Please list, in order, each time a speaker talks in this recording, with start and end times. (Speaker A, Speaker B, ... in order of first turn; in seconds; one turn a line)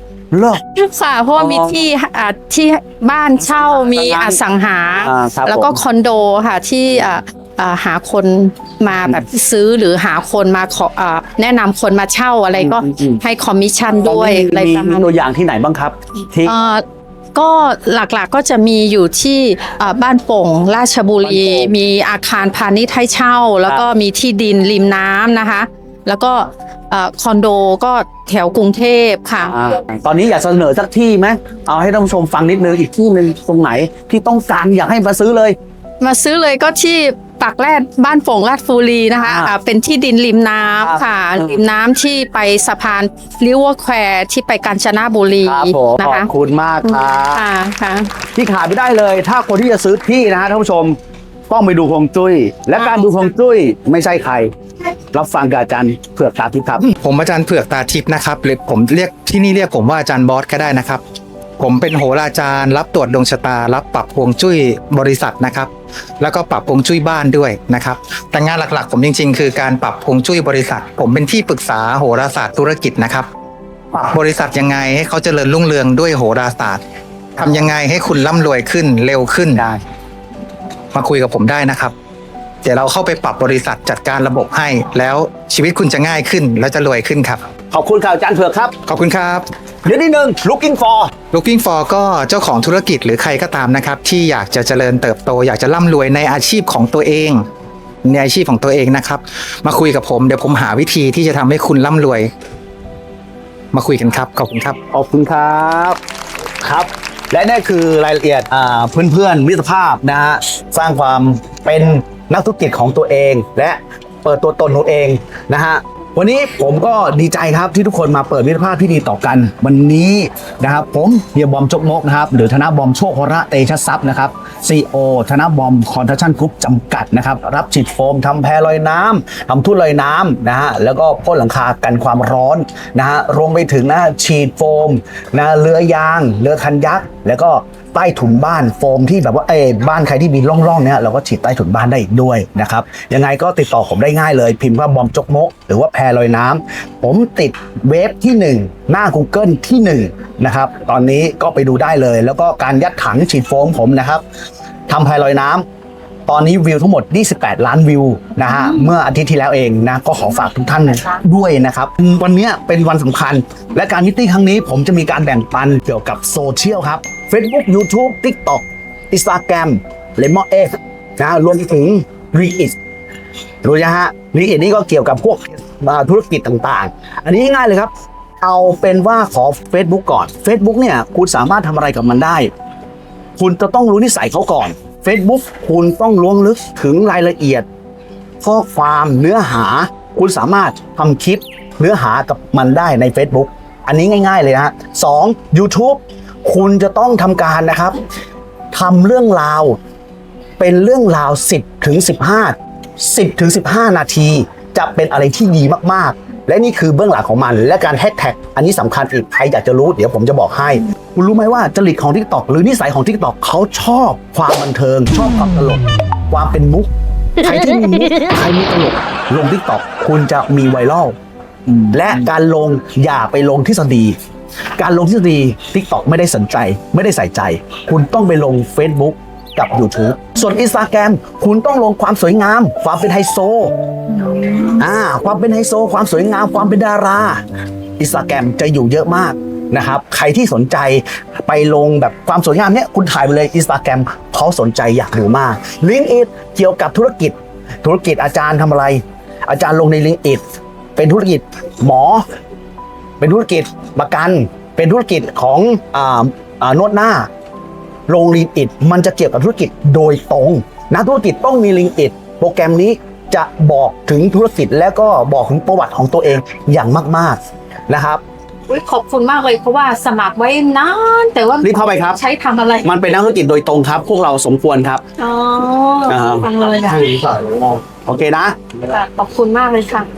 Speaker A: 0.3-0.6
Speaker B: 0.7-15.1
Speaker A: 1.3-1.8
Speaker A: 3.4-4.4
Speaker A: 5.0-5.8
Speaker A: 12.5-13.2
Speaker A: 14.0-16.5
Speaker B: 16.4-16.8
Speaker B: 17.3-29.6
Speaker A: 21.2-21.7
Speaker A: 29.5-35.5
Speaker B: 36.0-46.3
Speaker A: 39.2-39.5
Speaker A: 40.8-41.6
Speaker A: 45.4-47.4
Speaker B: 46.8-48.1
Speaker A: 48.3-51.0
Speaker A: 51.5-54.5
Speaker B: 52.8-53.2
Speaker A: 55.1-56.9
Speaker C: 56.8-61.0
Speaker C: 61.6-65.7
Speaker C: 66.2-73.3
Speaker C: 73.9-76.8
Speaker C: 77.4-79.7
Speaker C: 80.9-81.9
Speaker C: 82.6-87.4
Speaker A: 87.7-88.7
Speaker C: 88.9-89.5
Speaker A: 89.8-91.1
Speaker C: 91.3-97.4
Speaker C: 98.0-102.3
Speaker C: 103.7-104.8
Speaker A: 104.9-106.0
Speaker A: 106.6-154.2
Speaker A: 154.9-155.6
Speaker A: 156.3-172.8
Speaker A: 173.6-182.5
Speaker A: 183.4-187.7
Speaker A: 188.4-198.0
Speaker A: 198.7-199.8
Speaker A: 200.6-216.9
Speaker A: 217.4-221.1
Speaker A: 221.9-224.2
Speaker A: 224.8-233.7
Speaker A: 234.4-237.4
Speaker A: 238.0-250.4
Speaker A: 250.9-252.2
Speaker A: 253.2-257.3
Speaker A: 258.1-268.2
Speaker B: 268.7-273.0
Speaker A: 271.6-272.2
Speaker A: 272.8-275.0
Speaker B: 275.2-277.4
Speaker A: 276.1-277.1
Speaker A: 277.8-278.5
Speaker B: 278.9-280.0